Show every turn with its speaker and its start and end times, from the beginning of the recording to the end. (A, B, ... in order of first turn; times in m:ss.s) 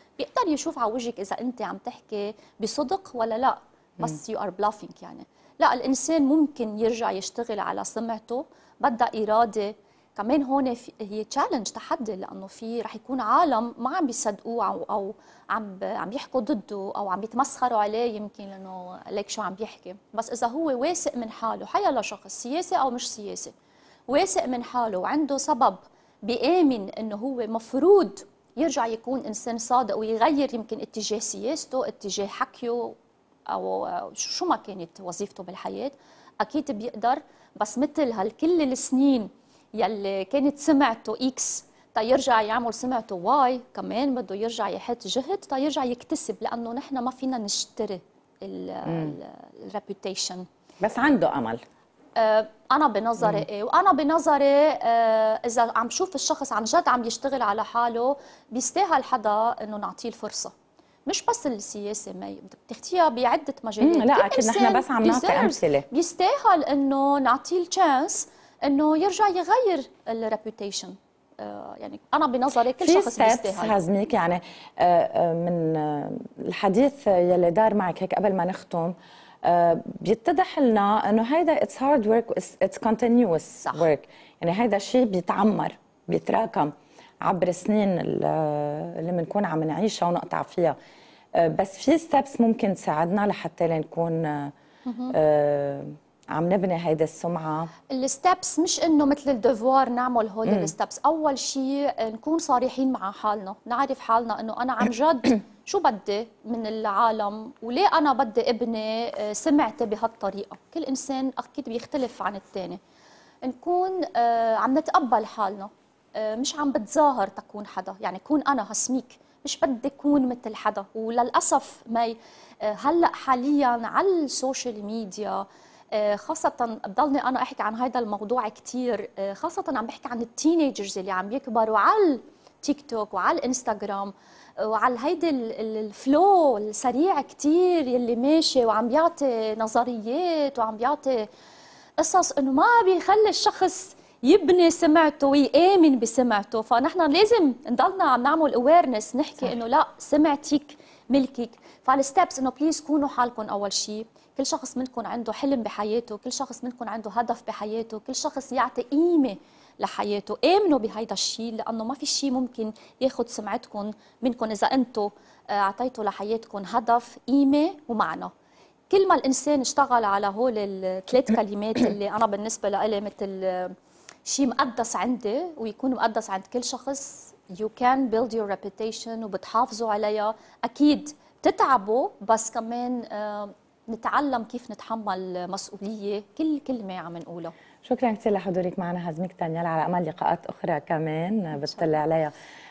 0:00.2-0:23.5 A
0:24.1-0:33.0 A
0:33.5-0:50.5 A
0:48.9-0:49.2 B
0:50.8-0:51.6 B
0:52.2-1:00.5 A
0:53.2-0:53.5 B
1:01.1-1:13.8 A
1:03.8-1:05.9 B
1:12.8-1:30.8 B
1:31.4-1:34.5 B
1:34.9-1:35.2 A
1:35.1-1:37.7 B
1:37.9-1:52.8 A
1:40.4-1:40.7 B
1:53.4-2:21.3 A
2:22.0-2:48.3 A
2:48.9-3:07.5 A
3:07.8-3:12.3 B